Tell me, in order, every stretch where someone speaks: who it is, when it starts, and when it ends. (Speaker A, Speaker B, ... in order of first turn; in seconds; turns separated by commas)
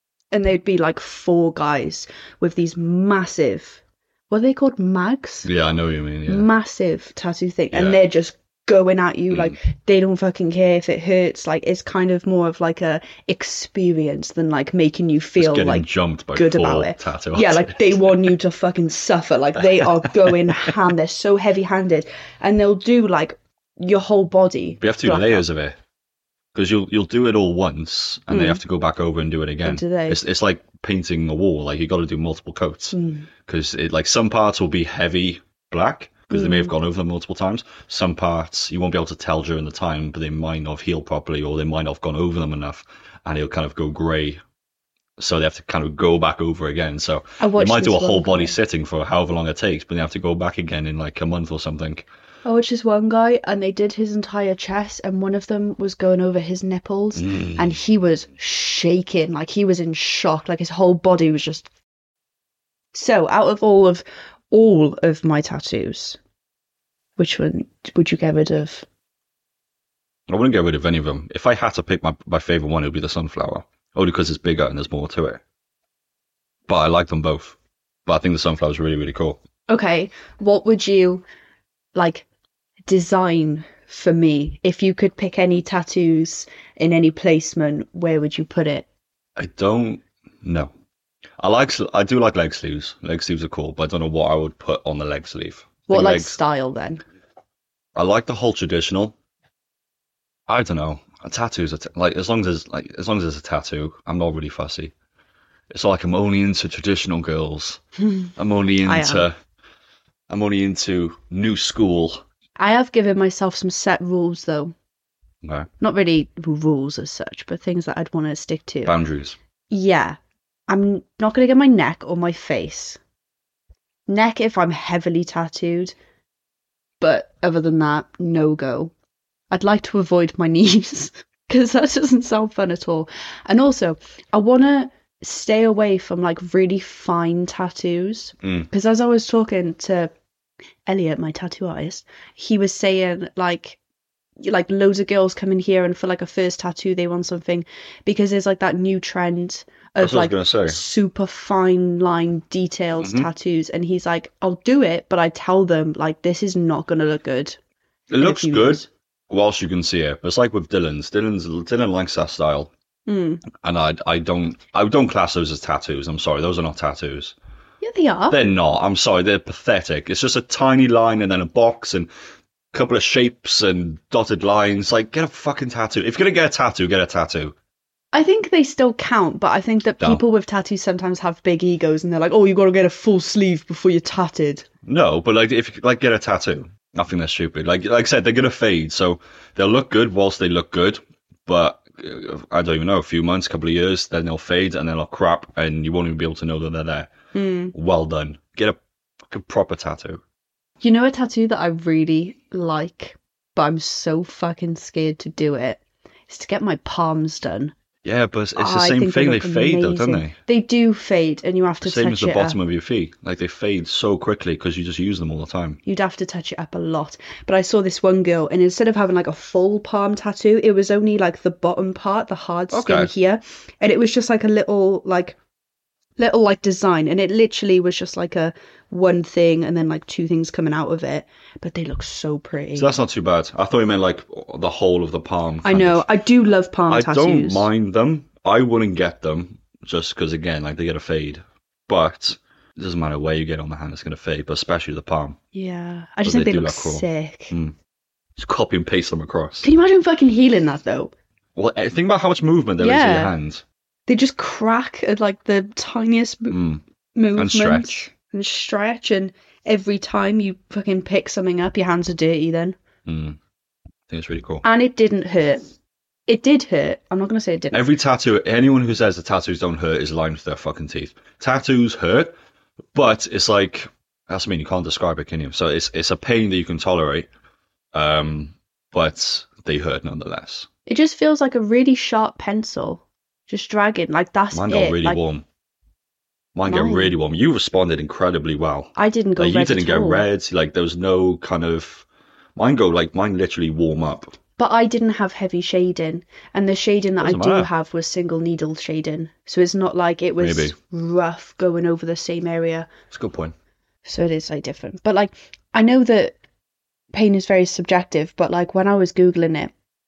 Speaker A: 0.3-5.5, Speaker B: 5.4-6.5, Speaker A: 6.2-25.4, Speaker B: 7.7-8.0, Speaker B: 9.3-9.6, Speaker B: 15.4-18.2, Speaker B: 24.8-25.8, Speaker B: 26.5-44.4, Speaker A: 28.3-28.6, Speaker A: 29.6-30.2, Speaker A: 32.9-33.3, Speaker A: 36.3-36.7, Speaker B: 45.2-52.0, Speaker A: 47.4-48.5, Speaker A: 52.4-61.7, Speaker B: 57.2-57.8, Speaker A: 62.9-66.2, Speaker A: 67.2-68.8, Speaker B: 70.3-75.4, Speaker B: 76.7-79.4, Speaker A: 79.7-81.2, Speaker A: 81.9-82.2, Speaker A: 82.9-88.8, Speaker B: 89.4-90.7, Speaker B: 91.4-96.4, Speaker A: 95.9-97.0, Speaker B: 97.9-99.1, Speaker B: 100.5-104.9, Speaker B: 105.7-107.8, Speaker B: 108.3-109.3, Speaker A: 108.8-109.2, Speaker B: 110.3-112.2, Speaker A: 112.6-114.7, Speaker B: 115.4-115.7, Speaker A: 115.8-118.9, Speaker B: 118.8-119.4, Speaker A: 119.7-123.0, Speaker A: 124.1-125.9, Speaker A: 127.0-128.9, Speaker A: 129.5-140.1, Speaker B: 138.4-138.7, Speaker A: 140.8-143.8, Speaker A: 144.4-157.6, Speaker B: 150.0-150.8, Speaker B: 153.0-153.3, Speaker B: 158.1-162.7, Speaker A: 158.2-158.9, Speaker A: 163.1-163.4, Speaker B: 163.5-167.3, Speaker A: 167.8-168.4, Speaker B: 168.3-172.1, Speaker B: 172.7-177.5, Speaker A: 178.1-184.6, Speaker B: 184.8-197.1, Speaker A: 197.3-197.7, Speaker B: 197.7-200.2, Speaker A: 200.8-207.7, Speaker B: 208.0-210.3, Speaker A: 208.6-212.6, Speaker B: 211.8-215.8, Speaker A: 215.8-225.4, Speaker B: 222.7-223.1, Speaker A: 226.2-232.9, Speaker B: 232.7-236.1, Speaker A: 235.6-237.7, Speaker B: 236.9-245.4, Speaker A: 245.5-247.5, Speaker B: 246.2-247.7, Speaker B: 248.4-249.7, Speaker A: 249.6-251.1, Speaker B: 251.5-253.6, Speaker A: 252.8-253.3, Speaker A: 254.1-256.6, Speaker B: 256.5-256.8, Speaker A: 257.1-262.8, Speaker B: 257.3-258.1, Speaker B: 263.0-263.4, Speaker B: 264.1-264.6, Speaker A: 264.6-265.6, Speaker A: 266.3-267.8, Speaker B: 267.7-272.3, Speaker B: 272.9-277.3, Speaker B: 277.9-280.7, Speaker A: 280.9-285.2, Speaker B: 284.5-285.4, Speaker B: 286.5-294.3, Speaker A: 286.7-287.1, Speaker A: 288.9-290.2, Speaker A: 294.6-302.9, Speaker B: 297.2-297.7, Speaker B: 300.4-300.7, Speaker B: 303.1-303.5, Speaker A: 304.0-306.3, Speaker A: 307.1-309.7